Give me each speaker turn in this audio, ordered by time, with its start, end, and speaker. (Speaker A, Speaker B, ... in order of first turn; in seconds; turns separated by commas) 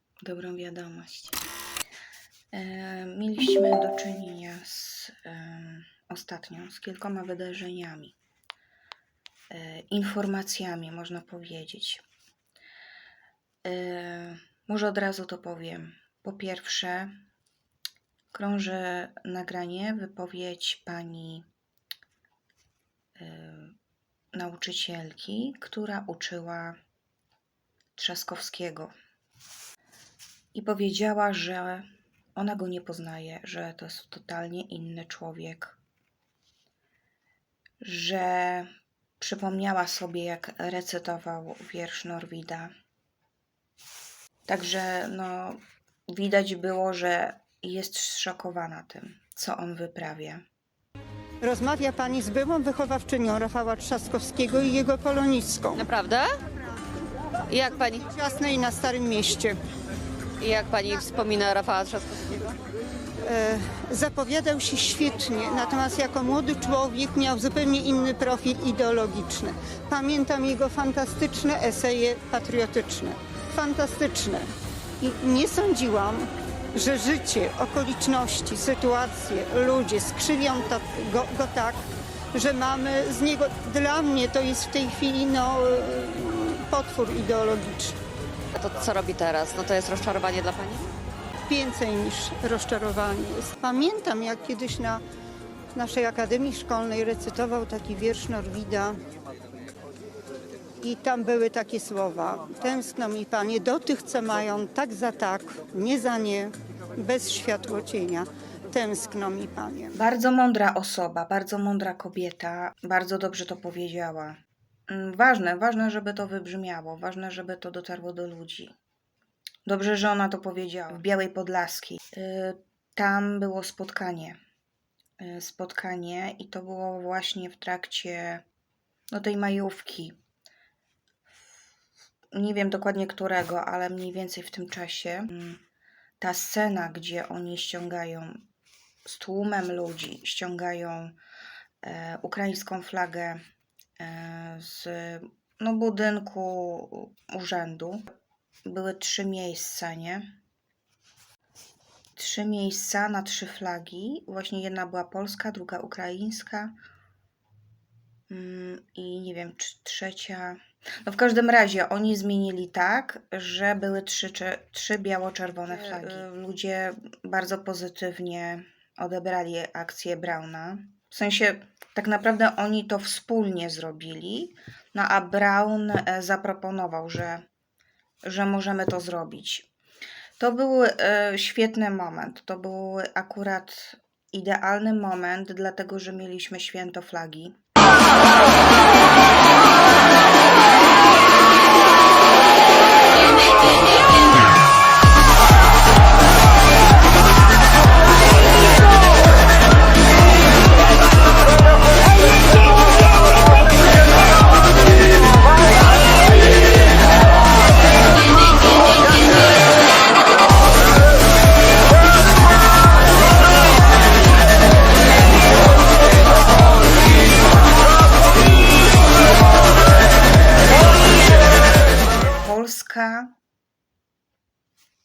Speaker A: 0.2-1.4, Speaker A: 2.5-8.1, Speaker A: 9.5-12.0, Speaker A: 13.6-17.1, Speaker A: 18.3-21.4, Speaker A: 23.2-23.7, Speaker A: 24.3-26.8, Speaker A: 27.9-28.9, Speaker A: 30.5-31.8, Speaker A: 32.4-35.8, Speaker A: 37.8-38.7, Speaker A: 39.2-42.7, Speaker A: 44.5-50.4, Speaker B: 51.4-55.8, Speaker C: 55.7-56.3, Speaker C: 57.5-58.0, Speaker B: 57.7-59.6, Speaker C: 60.4-62.5, Speaker B: 63.2-88.0, Speaker C: 88.5-90.9, Speaker B: 91.5-95.0, Speaker B: 95.7-99.0, Speaker B: 100.8-110.0, Speaker A: 109.9-118.7, Speaker A: 119.7-124.4, Speaker A: 125.2-128.4, Speaker A: 129.1-130.1, Speaker A: 132.3-135.6, Speaker A: 136.2-138.4, Speaker A: 139.1-141.2, Speaker A: 141.8-143.4, Speaker A: 144.0-148.0, Speaker A: 148.7-150.3, Speaker A: 152.2-156.7, Speaker A: 158.3-177.4, Speaker A: 178.2-179.7, Speaker A: 180.4-187.5, Speaker A: 220.8-223.3